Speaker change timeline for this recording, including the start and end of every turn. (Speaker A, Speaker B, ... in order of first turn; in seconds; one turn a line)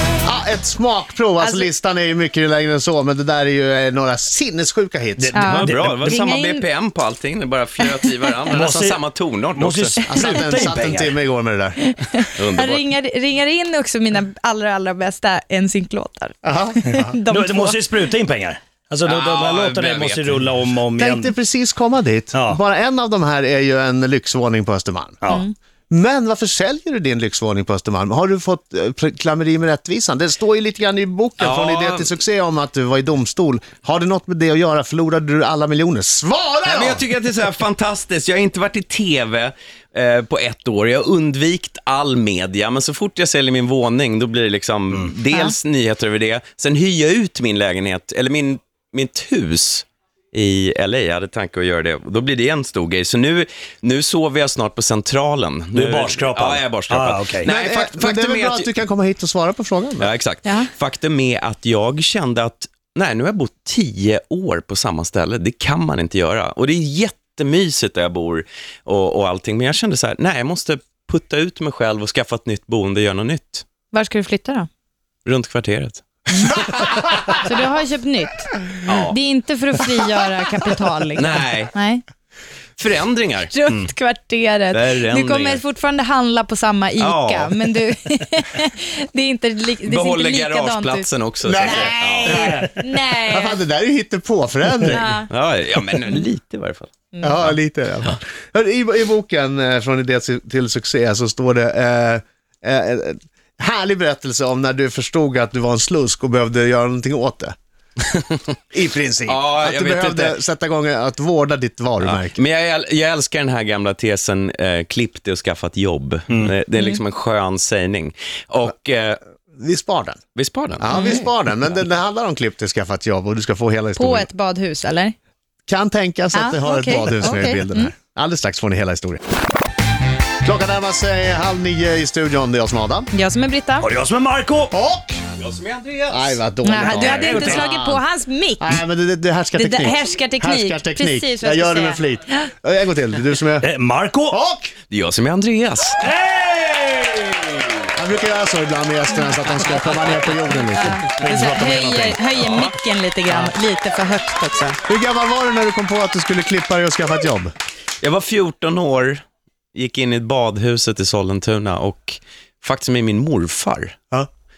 Speaker A: 0.2-5.4
Speaker B: 1.4-1.7
Speaker C: 5.2-6.2
Speaker B: 5.3-6.6
Speaker D: 5.4-10.0
Speaker B: 7.8-8.1
Speaker C: 8.5-9.0
Speaker C: 9.6-11.1
Speaker A: 10.1-11.8
Speaker B: 10.1-10.5
Speaker B: 11.8-17.8
Speaker D: 12.4-12.8
Speaker A: 16.4-17.1
Speaker C: 17.3-21.3
Speaker D: 19.0-20.6
Speaker A: 20.9-25.2
Speaker C: 22.3-22.6
Speaker B: 25.3-25.5
Speaker A: 25.9-37.0
Speaker D: 31.4-32.1
Speaker D: 36.6-58.7
Speaker C: 55.7-57.5
Speaker A: 57.5-60.1
Speaker D: 60.0-73.7
Speaker B: 73.9-74.7
Speaker D: 75.2-77.0
Speaker B: 77.3-82.0
Speaker D: 78.9-79.2
Speaker D: 81.2-81.7
Speaker D: 82.8-83.5
Speaker B: 83.5-93.6
Speaker D: 84.7-85.6
Speaker D: 87.0-87.5
Speaker D: 89.8-92.5
Speaker A: 91.4-95.1
Speaker C: 92.4-92.7
Speaker B: 94.9-95.3
Speaker D: 95.3-98.2
Speaker A: 97.2-107.5
Speaker A: 108.7-112.4
Speaker D: 109.3-110.4
Speaker D: 112.0-119.2
Speaker A: 119.6-120.2
Speaker D: 120.3-121.1
Speaker A: 120.8-124.3
Speaker B: 120.9-121.2
Speaker B: 124.0-125.1
Speaker A: 125.7-129.2
Speaker B: 126.3-127.9
Speaker A: 130.4-133.1
Speaker B: 133.1-133.9
Speaker C: 133.8-134.7
Speaker A: 134.7-135.2
Speaker D: 135.4-136.4
Speaker A: 136.1-138.0
Speaker B: 136.6-138.8
Speaker C: 136.9-137.7
Speaker A: 138.6-143.7
Speaker B: 139.6-142.5
Speaker C: 143.6-144.4
Speaker A: 144.3-144.7
Speaker D: 144.9-146.1
Speaker C: 146.1-147.6
Speaker A: 147.9-151.0
Speaker B: 150.8-154.8
Speaker C: 151.1-152.2
Speaker D: 152.4-152.7
Speaker A: 154.9-157.5
Speaker D: 158.0-159.2
Speaker D: 159.7-164.0